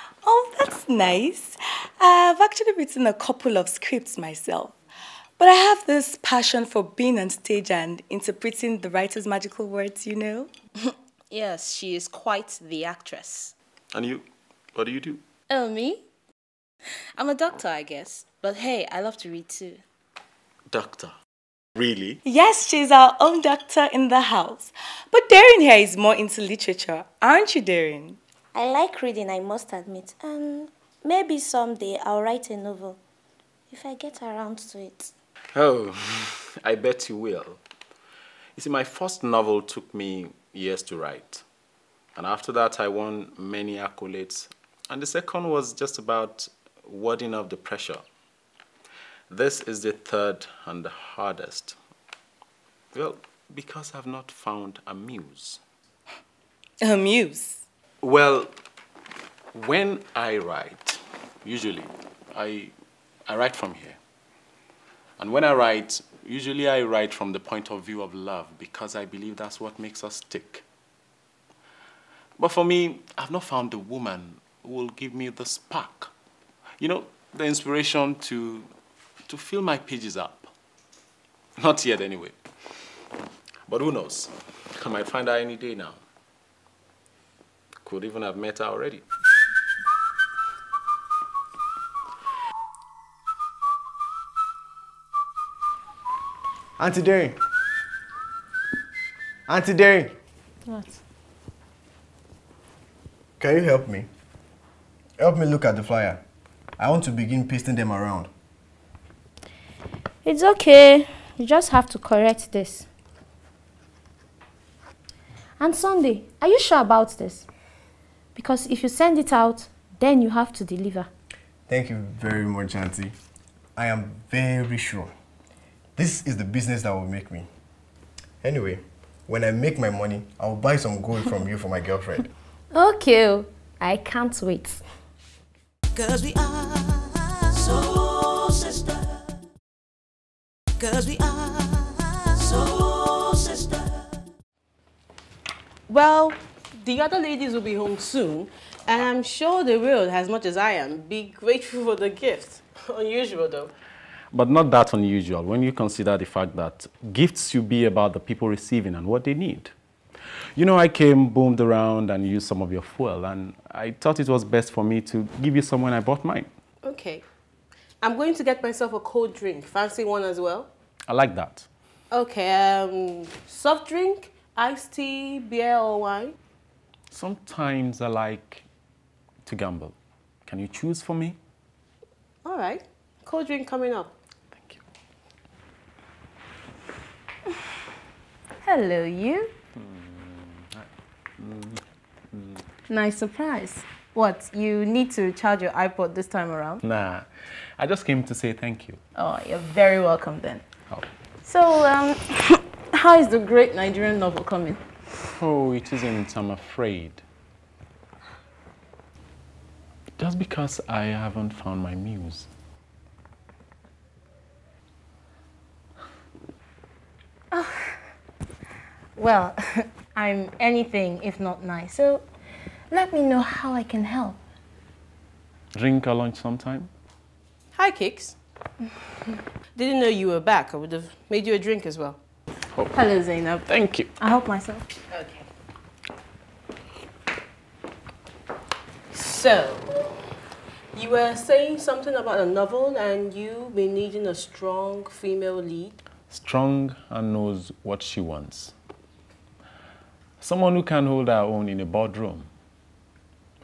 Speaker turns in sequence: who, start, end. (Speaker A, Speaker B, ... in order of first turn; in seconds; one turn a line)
Speaker A: 0.2-4.8
Speaker A: 5.4-10.5
Speaker B: 10.9-13.5
Speaker C: 13.9-15.2
Speaker B: 15.5-16.0
Speaker B: 17.2-19.8
Speaker C: 20.7-21.1
Speaker C: 21.8-22.2
Speaker A: 22.2-28.2
Speaker D: 28.5-33.0
Speaker D: 33.7-35.1
Speaker C: 35.5-37.6
Speaker C: 38.6-41.4
Speaker C: 42.1-48.0
Speaker C: 49.3-51.8
Speaker C: 52.9-55.6
Speaker A: 56.8-57.6
Speaker C: 58.0-58.5
Speaker C: 59.5-62.7
Speaker C: 63.3-64.0
Speaker C: 65.2-70.6
Speaker C: 72.4-76.1
Speaker C: 76.8-78.7
Speaker C: 79.3-80.5
Speaker C: 81.6-82.4
Speaker C: 83.7-86.0
Speaker C: 87.8-89.0
Speaker E: 96.8-97.4
Speaker E: 99.5-100.1
Speaker B: 100.7-100.9
Speaker E: 103.4-104.1
Speaker E: 105.2-106.2
Speaker E: 106.8-108.3
Speaker D: 110.2-112.9
Speaker D: 115.6-117.4
Speaker D: 118.3-121.1
Speaker E: 121.7-123.1
Speaker E: 123.8-125.1
Speaker E: 126.0-127.5
Speaker E: 128.4-132.2
Speaker D: 132.7-134.8
Speaker F: 135.9-138.4
Speaker F: 140.8-143.5
Speaker G: 145.9-153.7
Speaker C: 154.3-159.7
Speaker C: 160.6-166.5
Speaker G: 166.8-167.2
Speaker G: 168.0-170.7
Speaker C: 171.1-171.7
Speaker G: 172.1-176.4
Speaker C: 177.1-178.6
Speaker C: 179.4-179.9
Speaker C: 180.4-181.4
Speaker G: 182.4-184.1
Speaker C: 184.5-184.8
Speaker B: 188.6-189.5
Speaker C: 189.8-192.7
Speaker B: 192.9-196.8
Speaker C: 196.8-199.0
Speaker B: 199.1-200.6
Speaker B: 201.4-204.8
Speaker C: 205.4-207.2
Speaker C: 210.2-212.5
Speaker B: 217.5-218.0
Speaker B: 219.2-222.2
Speaker B: 222.9-224.4
Speaker C: 225.7-226.9
Speaker G: 227.7-228.4
Speaker G: 229.7-232.2
Speaker C: 232.7-233.0
Speaker B: 232.9-233.7
Speaker C: 233.7-234.1
Speaker B: 234.2-234.8
Speaker G: 235.1-235.4
Speaker G: 239.1-239.9
Speaker G: 240.9-246.0
Speaker C: 246.3-248.7
Speaker C: 250.4-252.5